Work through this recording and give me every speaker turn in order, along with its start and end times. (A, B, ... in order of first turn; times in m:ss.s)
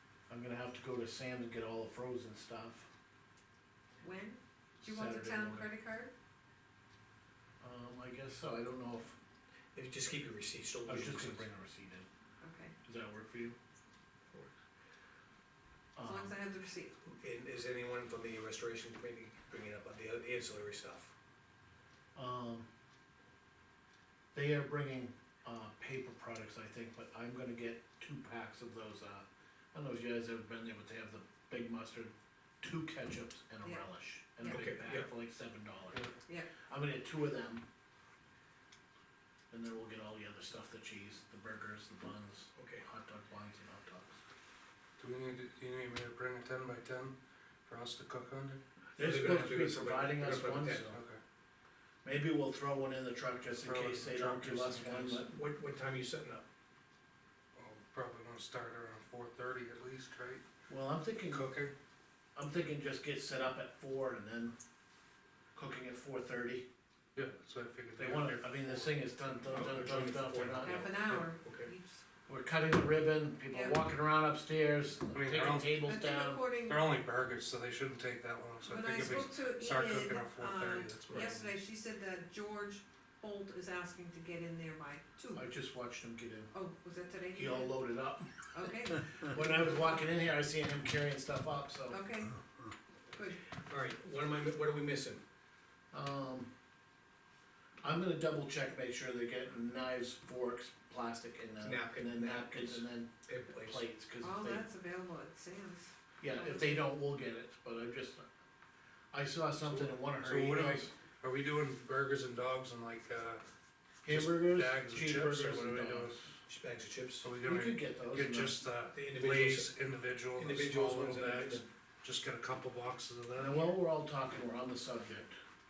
0:00.3-0:02.9 A
0:04.0-0:06.1 B
0:04.8-0:05.7 A
0:07.6-0:09.2 A
0:09.8-0:11.4 C
0:10.9-0:12.1 A
0:12.4-0:12.7 B
0:12.8-0:13.6 A
0:16.0-0:16.4 A
0:16.0-0:17.0 B
0:17.2-0:21.1 C
0:22.2-0:22.7 A
0:24.3-0:36.1 A
0:34.4-0:34.7 B
0:34.5-0:35.1 C
0:36.7-0:37.6 A
0:39.5-0:44.2 A
0:42.6-0:42.8 C
0:45.0-0:47.2 D
0:47.7-0:48.6 D
0:49.0-0:51.0 A
0:49.0-0:50.9 C
0:50.9-0:51.2 D
0:52.0-0:55.3 A
0:53.6-0:55.3 D
0:55.3-0:56.4 C
0:57.6-1:00.4 D
1:00.7-1:01.5 A
1:01.3-1:01.7 D
1:02.4-1:04.5 A
1:05.6-1:06.7 A
1:07.2-1:09.2 D
1:08.0-1:10.9 A
1:09.5-1:11.7 C
1:10.6-1:12.0 B
1:12.3-1:16.5 A
1:13.5-1:13.8 B
1:15.1-1:15.8 D
1:15.8-1:16.9 B
1:16.7-1:21.5 D
1:18.6-1:25.4 B
1:21.1-1:21.4 C
1:25.3-1:26.5 A
1:26.5-1:27.7 B
1:27.4-1:28.3 A
1:28.5-1:29.8 B
1:29.2-1:32.0 A
1:31.9-1:32.4 B
1:33.1-1:33.4 B
1:33.7-1:35.2 C
1:35.9-1:36.5 A
1:37.8-1:44.7 A
1:41.6-1:43.8 C
1:44.2-1:46.9 B
1:46.2-1:48.2 A
1:49.1-1:50.9 A
1:49.6-1:53.4 D
1:54.0-1:56.2 A
1:54.0-1:56.4 D
1:56.5-1:57.3 C
1:57.2-2:03.7 D
1:57.4-1:58.6 A
1:58.9-1:59.7 C
2:00.4-2:01.7 C
2:03.4-2:05.4 A